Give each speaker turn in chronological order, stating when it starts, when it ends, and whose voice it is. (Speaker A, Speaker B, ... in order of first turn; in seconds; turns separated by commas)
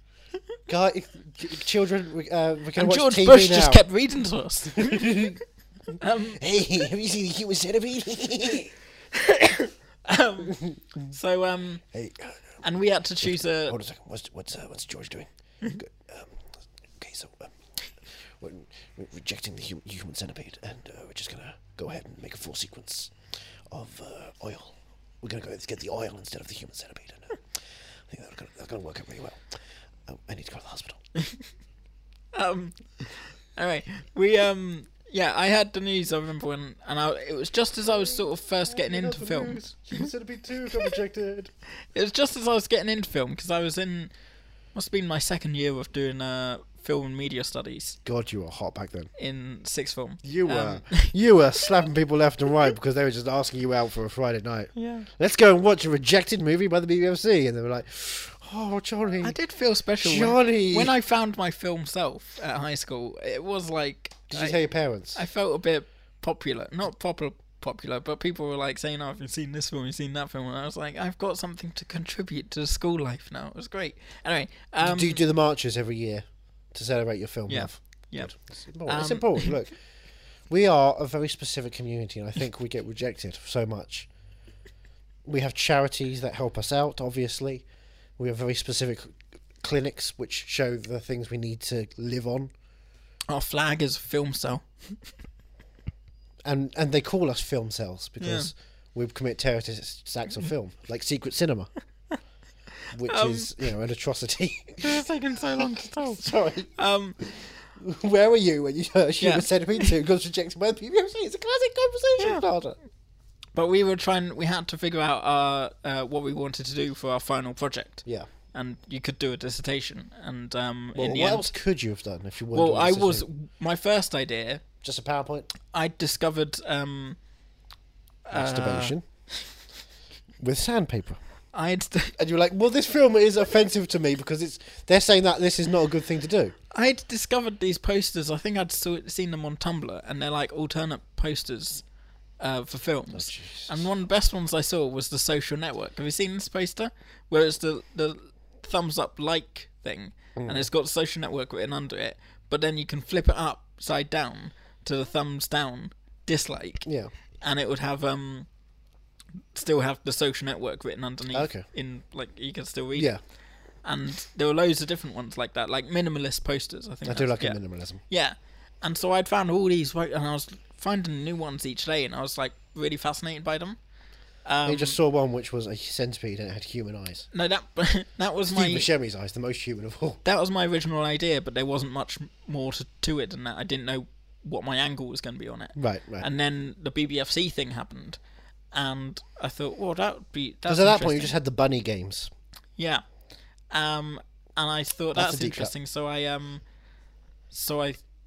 Speaker A: 0.7-3.8, Speaker B: 2.7-5.4, Speaker A: 4.8-5.4, Speaker B: 6.0-6.4, Speaker A: 6.3-8.7, Speaker B: 9.1-11.8, Speaker A: 11.9-12.4, Speaker B: 12.6-13.8, Speaker A: 13.2-16.4, Speaker A: 17.0-17.5, Speaker A: 18.4-23.1, Speaker A: 23.7-27.4, Speaker A: 28.1-29.4, Speaker A: 30.1-31.0, Speaker B: 32.3-40.0, Speaker A: 38.1-41.5, Speaker B: 41.9-44.1, Speaker B: 44.7-48.0, Speaker A: 48.0-49.1, Speaker B: 49.2-51.1, Speaker A: 50.2-59.4, Speaker B: 54.7-55.1, Speaker B: 59.2-64.5, Speaker A: 60.0-60.9, Speaker A: 64.3-65.2, Speaker B: 65.1-75.2, Speaker A: 74.8-79.8, Speaker B: 77.5-78.3, Speaker B: 78.8-79.5, Speaker A: 80.5-84.1, Speaker A: 85.2-87.6, Speaker A: 88.2-92.5, Speaker B: 93.3-95.0, Speaker A: 96.4-101.7, Speaker B: 98.2-98.5, Speaker A: 102.9-105.0, Speaker B: 103.0-103.5, Speaker B: 104.8-107.5, Speaker A: 106.0-112.8, Speaker B: 109.2-109.9, Speaker B: 112.2-112.4, Speaker B: 113.5-121.5, Speaker A: 120.9-123.2, Speaker B: 122.5-124.6, Speaker A: 124.8-125.5, Speaker B: 125.7-127.2, Speaker B: 128.3-128.9, Speaker A: 128.3-129.0, Speaker A: 130.4-131.2, Speaker B: 131.5-132.2, Speaker A: 132.2-136.5, Speaker B: 136.7-141.8, Speaker B: 142.4-156.8, Speaker A: 143.1-143.8, Speaker A: 150.4-150.7, Speaker A: 156.8-157.1, Speaker B: 157.4-158.5, Speaker B: 159.5-163.1, Speaker A: 161.3-161.7, Speaker A: 162.9-163.2, Speaker B: 163.8-173.8, Speaker A: 167.1-168.0, Speaker B: 174.4-175.0, Speaker A: 174.7-177.3, Speaker B: 177.3-178.9, Speaker A: 178.5-180.2, Speaker B: 180.2-188.2, Speaker A: 185.8-186.3, Speaker B: 188.7-191.3, Speaker A: 190.7-192.3, Speaker B: 192.8-193.0, Speaker B: 193.7-196.6, Speaker A: 195.1-195.7, Speaker B: 197.5-198.0